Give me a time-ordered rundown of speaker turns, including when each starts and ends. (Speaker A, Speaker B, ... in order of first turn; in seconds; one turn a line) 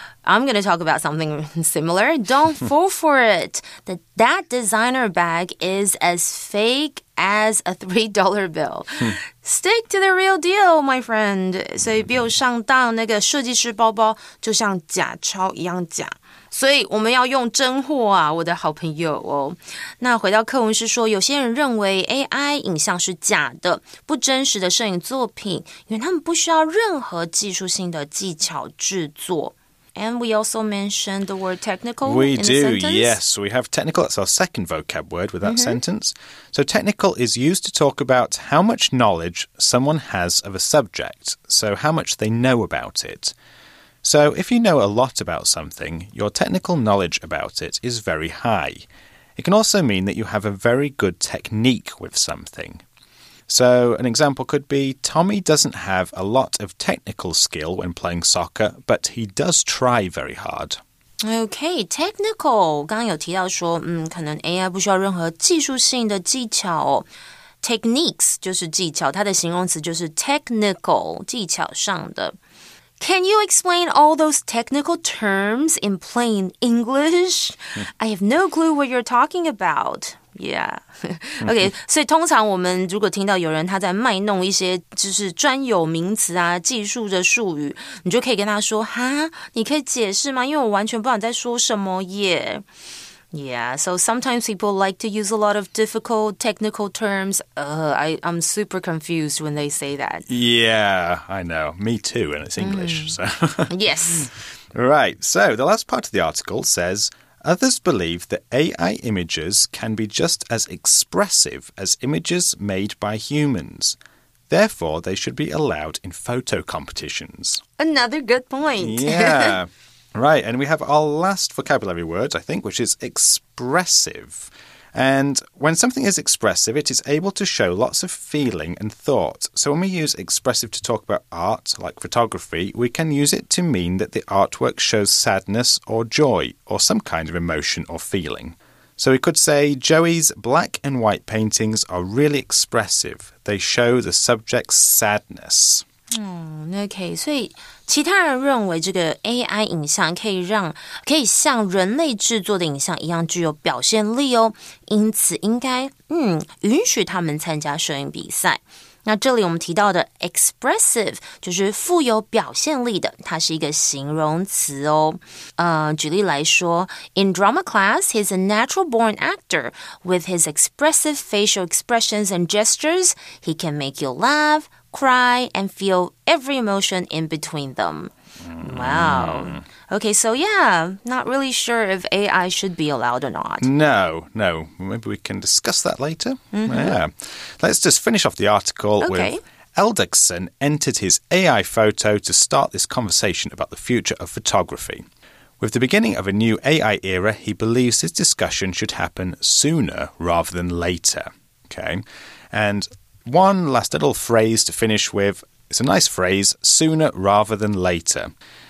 Speaker A: 0.2-33.2
Speaker B: 32.0-43.3
Speaker A: 35.4-35.8
Speaker B: 44.0-48.9
Speaker B: 49.4-52.8
Speaker B: 53.5-60.8
Speaker A: 61.2-67.1
Speaker A: 67.6-72.3
Speaker A: 73.0-92.7
Speaker A: 93.3-100.2
Speaker B: 100.3-114.0
Speaker A: 102.6-103.2
Speaker A: 103.7-104.3
Speaker B: 114.5-117.6
Speaker A: 117.8-119.6
Speaker B: 118.8-145.8
Speaker A: 146.1-183.7
Speaker B: 178.4-179.6
Speaker B: 183.6-195.0
Speaker A: 186.5-187.0
Speaker A: 189.0-189.4
Speaker B: 195.6-208.3